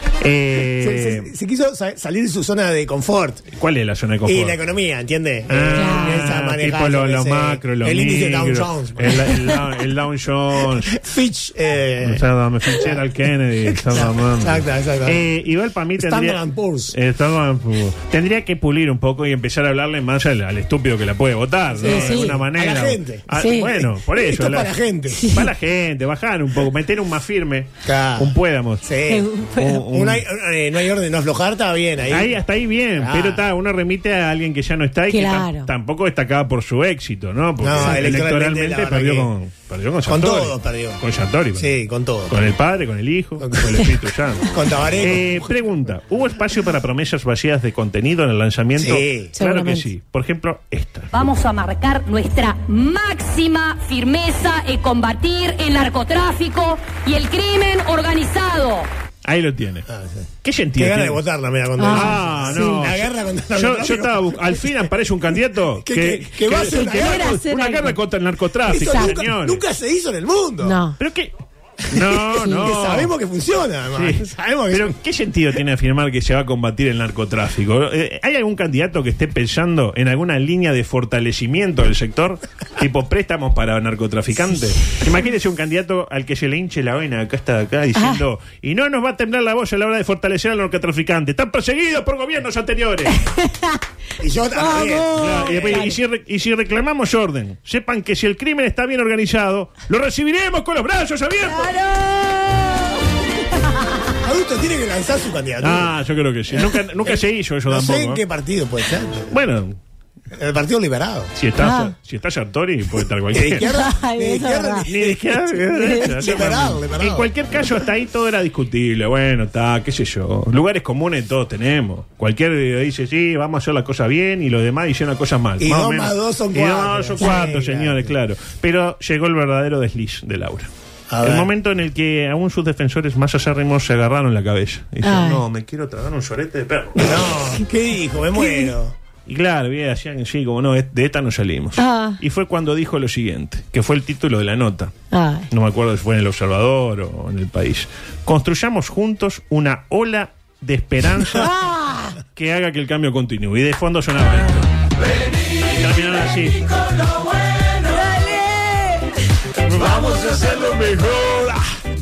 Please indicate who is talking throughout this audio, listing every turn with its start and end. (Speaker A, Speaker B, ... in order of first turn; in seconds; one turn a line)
Speaker A: 0.2-1.3
Speaker B: 0.8-3.4
Speaker A: 3.6-4.6
Speaker B: 4.2-9.5
Speaker A: 5.5-11.0
Speaker C: 5.8-6.2
Speaker B: 10.9-12.2
Speaker A: 12.0-24.7
Speaker B: 13.7-15.3
Speaker B: 16.0-16.9
Speaker B: 21.8-23.3
Speaker C: 21.8-22.3
Speaker C: 23.3-23.7
Speaker B: 24.1-25.2
Speaker C: 25.1-25.5
Speaker A: 25.3-28.9
Speaker B: 27.9-29.3
Speaker C: 29.1-29.8
Speaker A: 29.6-30.2
Speaker B: 29.9-32.4
Speaker A: 32.1-41.7
Speaker B: 33.0-33.4
Speaker C: 35.1-35.7
Speaker B: 37.6-39.3
Speaker C: 37.8-38.1
Speaker B: 40.1-41.0
Speaker B: 41.6-42.4
Speaker A: 42.3-51.1
Speaker B: 43.4-43.8
Speaker B: 44.5-45.5
Speaker B: 48.8-49.3
Speaker C: 49.4-49.9
Speaker D: 51.1-58.9
Speaker A: 59.2-59.9
Speaker B: 59.9-64.7
Speaker A: 60.4-61.2
Speaker C: 61.8-62.9
Speaker A: 61.9-69.6
Speaker B: 65.8-67.4
Speaker C: 66.5-68.0
Speaker B: 68.7-70.8
Speaker C: 68.8-69.1
Speaker C: 70.6-71.0
Speaker A: 71.0-71.3
Speaker A: 71.9-73.1
Speaker B: 72.5-75.0
Speaker A: 73.9-93.2
Speaker C: 88.0-88.2
Speaker C: 93.2-93.8
Speaker B: 94.2-95.9
Speaker C: 94.5-96.0
Speaker A: 95.2-101.7
Speaker C: 101.5-102.9
Speaker B: 104.2-105.9
Speaker A: 105.6-108.2
Speaker B: 106.5-109.3
Speaker A: 109.3-109.8
Speaker B: 110.3-111.3
Speaker A: 111.4-113.7
Speaker C: 111.6-111.9
Speaker B: 113.3-117.3
Speaker C: 113.6-114.9
Speaker A: 114.9-130.7
Speaker C: 115.7-116.1
Speaker B: 125.6-128.1
Speaker B: 131.1-131.5
Speaker A: 131.2-137.1
Speaker C: 135.0-135.4
Speaker B: 137.0-138.9
Speaker C: 138.4-138.7
Speaker A: 139.3-144.9
Speaker C: 141.8-142.2
Speaker C: 145.1-145.5
Speaker A: 145.5-151.5
Speaker C: 151.4-152.2
Speaker A: 152.3-154.7
Speaker A: 155.7-156.7
Speaker C: 157.8-159.1
Speaker A: 159.7-161.6